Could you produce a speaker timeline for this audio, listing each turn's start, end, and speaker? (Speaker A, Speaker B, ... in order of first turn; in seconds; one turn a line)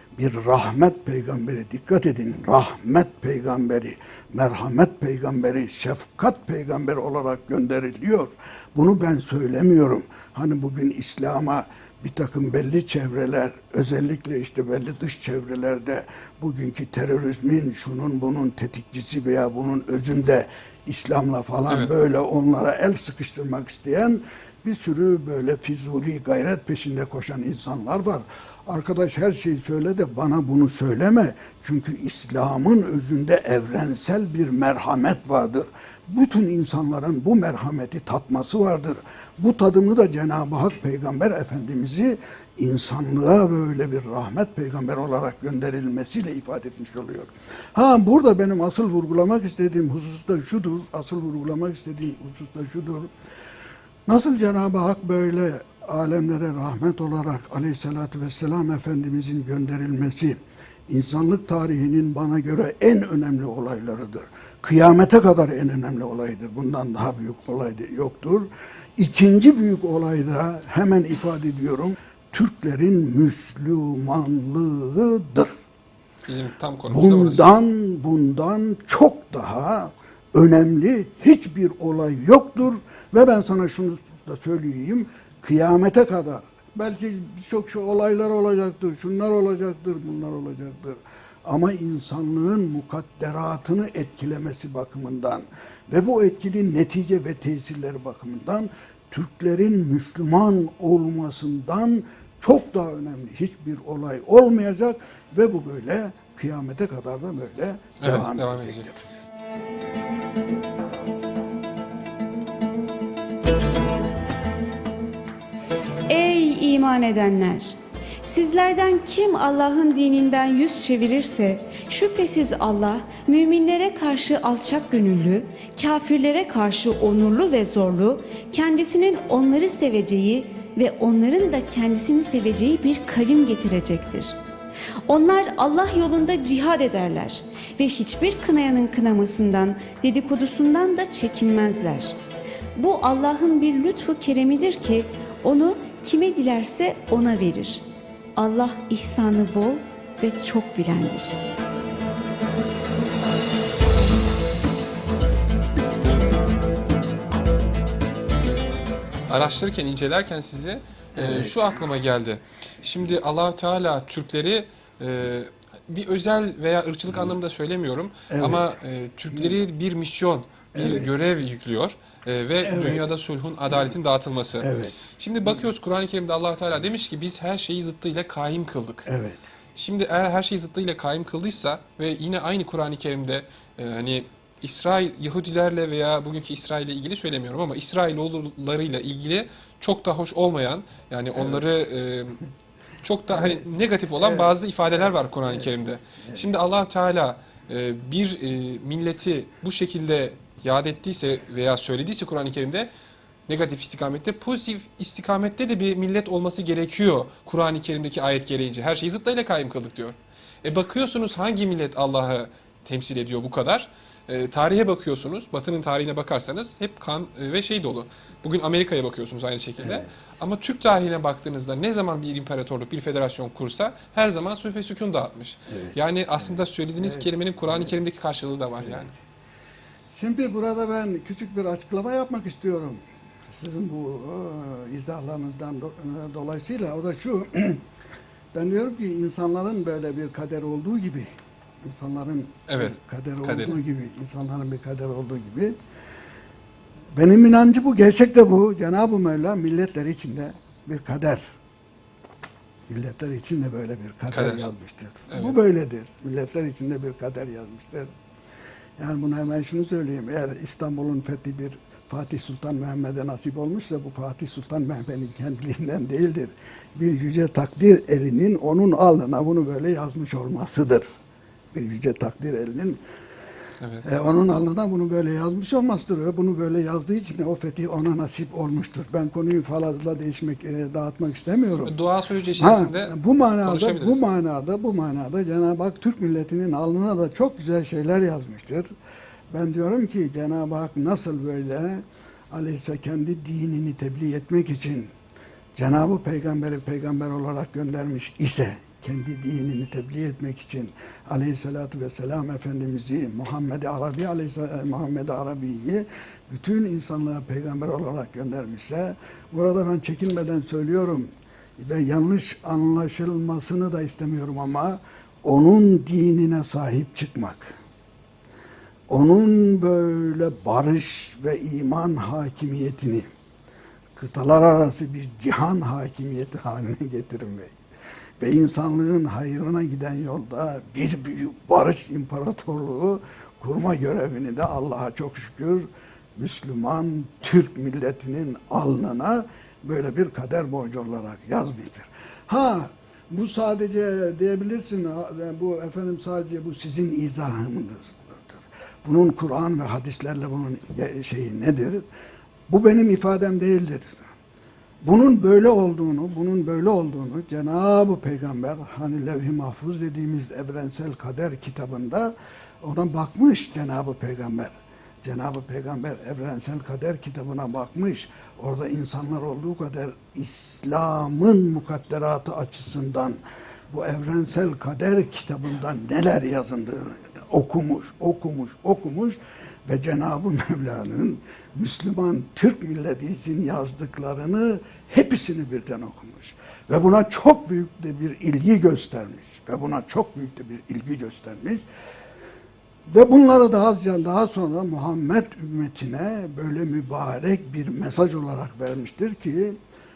Speaker A: 0.1-53.1
Speaker A: 54.0-75.5
Speaker B: 76.2-77.5
Speaker A: 76.9-109.1
Speaker B: 108.0-108.9
Speaker C: 116.1-134.3
Speaker C: 135.1-142.2
Speaker C: 142.8-147.8
Speaker C: 148.4-151.4
Speaker B: 159.3-179.1
Speaker A: 161.2-161.5
Speaker A: 168.3-168.7
Speaker A: 170.7-171.1
Speaker A: 172.6-173.0
Speaker A: 174.6-175.0
Speaker A: 179.1-179.4
Speaker B: 179.8-192.4
Speaker B: 193.0-202.9
Speaker A: 193.3-193.6
Speaker A: 194.2-195.7
Speaker A: 196.2-196.5
Speaker B: 203.5-229.1
Speaker A: 219.8-220.1
Speaker A: 225.7-225.9
Speaker A: 227.0-227.9
Speaker A: 228.8-229.1
Speaker A: 230.2-233.0
Speaker A: 233.5-237.8
Speaker A: 238.5-241.3
Speaker A: 241.8-245.8
Speaker B: 242.7-243.8
Speaker A: 247.1-251.5
Speaker A: 252.9-258.1
Speaker B: 254.3-254.7
Speaker B: 255.3-255.6
Speaker A: 259.0-271.1
Speaker A: 271.7-273.0
Speaker B: 273.8-274.1
Speaker A: 274.0-281.9
Speaker B: 281.8-284.2
Speaker A: 282.6-288.9
Speaker A: 289.5-295.1
Speaker A: 295.7-317.7
Speaker A: 319.1-323.3
Speaker A: 324.1-327.7
Speaker A: 328.4-352.0
Speaker A: 352.7-354.2
Speaker A: 355.0-391.8
Speaker A: 393.1-399.8